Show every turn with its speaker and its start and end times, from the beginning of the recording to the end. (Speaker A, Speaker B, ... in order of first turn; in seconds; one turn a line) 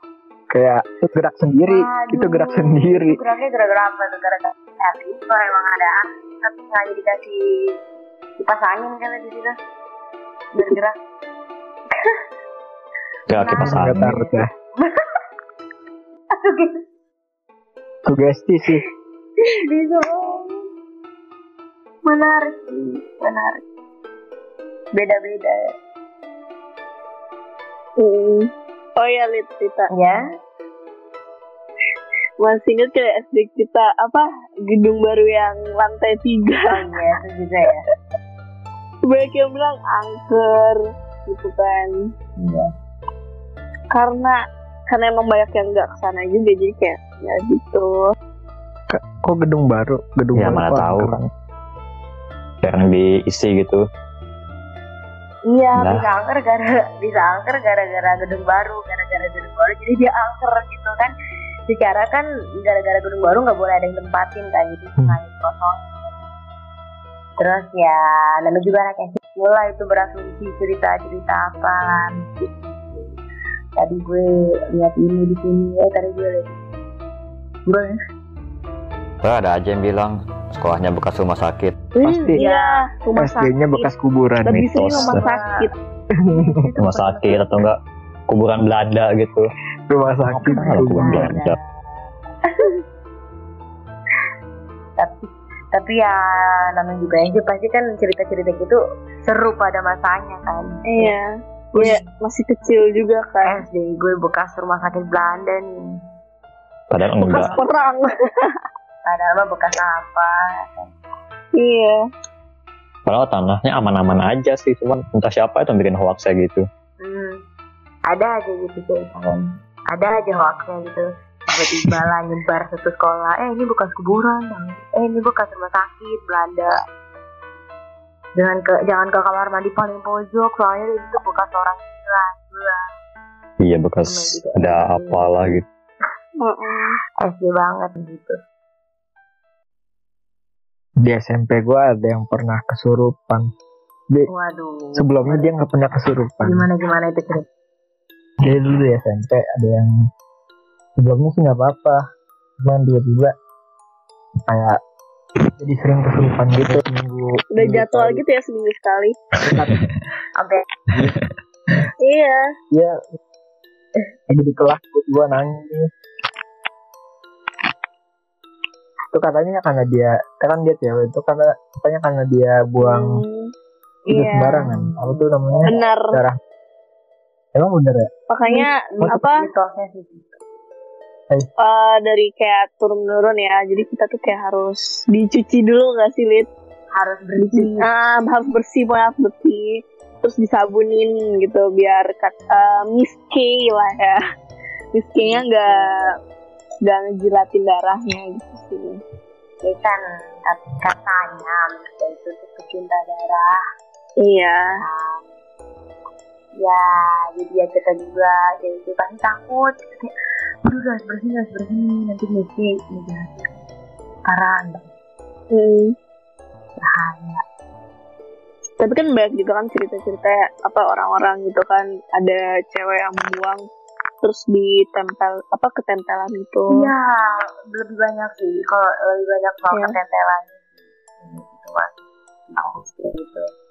Speaker A: 0.5-3.2
Speaker B: 1.6-7.8
Speaker B: 8.4-9.6
Speaker B: 10.5-11.0
Speaker B: 11.9-12.2
Speaker C: 13.3-14.2
Speaker B: 13.3-15.2
Speaker A: 13.6-14.5
Speaker B: 16.3-16.8
Speaker A: 18.1-18.8
Speaker B: 19.4-20.6
Speaker B: 22.1-23.6
Speaker B: 24.9-25.7
Speaker D: 28.0-29.9
Speaker B: 29.9-30.2
Speaker D: 32.4-36.7
Speaker B: 36.7-37.9
Speaker D: 39.0-41.9
Speaker B: 42.4-42.7
Speaker D: 43.9-44.3
Speaker D: 44.9-48.1
Speaker A: 48.9-51.2
Speaker C: 50.4-51.2
Speaker C: 52.6-53.8
Speaker B: 55.5-61.1
Speaker C: 55.8-56.1
Speaker B: 61.7-66.2
Speaker B: 67.4-73.2
Speaker B: 73.8-76.6
Speaker B: 77.7-78.0
Speaker E: 79.2-81.8
Speaker D: 82.0-83.9
Speaker A: 82.0-82.4
Speaker B: 82.3-82.8
Speaker A: 83.2-84.6
Speaker D: 84.4-85.7
Speaker C: 84.5-85.2
Speaker B: 84.8-85.7
Speaker A: 86.2-86.6
Speaker B: 86.3-87.7
Speaker C: 86.8-87.8
Speaker C: 88.3-89.5
Speaker A: 89.9-91.3
Speaker C: 90.3-91.6
Speaker B: 90.5-91.6
Speaker B: 92.4-92.8
Speaker B: 95.0-101.2
Speaker D: 100.8-103.6
Speaker B: 101.8-102.0
Speaker B: 103.4-105.9
Speaker C: 106.9-107.5
Speaker D: 107.3-108.5
Speaker B: 107.3-107.7
Speaker B: 109.0-110.9
Speaker D: 111.6-112.0
Speaker C: 113.0-116.6
Speaker B: 117.0-117.4
Speaker B: 118.1-126.8
Speaker B: 128.3-132.9
Speaker C: 133.6-135.6
Speaker B: 134.1-135.6
Speaker D: 136.4-137.0
Speaker B: 137.2-138.4
Speaker A: 141.0-143.5
Speaker B: 144.3-145.5
Speaker A: 144.9-146.7
Speaker B: 146.4-147.4
Speaker A: 148.4-149.9
Speaker A: 151.0-152.0
Speaker A: 152.6-153.3
Speaker A: 154.5-154.8
Speaker A: 155.6-158.2
Speaker D: 157.5-159.2
Speaker A: 159.4-159.8
Speaker B: 160.4-160.7
Speaker D: 162.0-162.4
Speaker A: 162.7-163.0
Speaker A: 164.3-165.9
Speaker A: 169.1-173.2
Speaker D: 172.8-173.5
Speaker D: 174.1-174.7
Speaker A: 174.1-176.4
Speaker B: 174.7-175.8
Speaker D: 175.7-176.2
Speaker A: 177.5-178.1
Speaker D: 178.3-179.4
Speaker B: 178.5-180.4
Speaker D: 181.6-186.5
Speaker B: 186.9-187.9
Speaker D: 187.4-194.2
Speaker D: 194.9-196.1
Speaker B: 195.2-196.2
Speaker D: 196.8-199.0
Speaker B: 199.6-203.6
Speaker D: 204.2-204.7
Speaker B: 204.8-205.2
Speaker B: 206.6-210.1
Speaker B: 210.6-213.5
Speaker B: 214.2-214.9
Speaker D: 215.5-215.9
Speaker B: 216.8-217.4
Speaker D: 218.8-223.6
Speaker D: 224.2-226.8
Speaker B: 226.7-230.6
Speaker B: 231.2-231.9
Speaker B: 232.5-233.5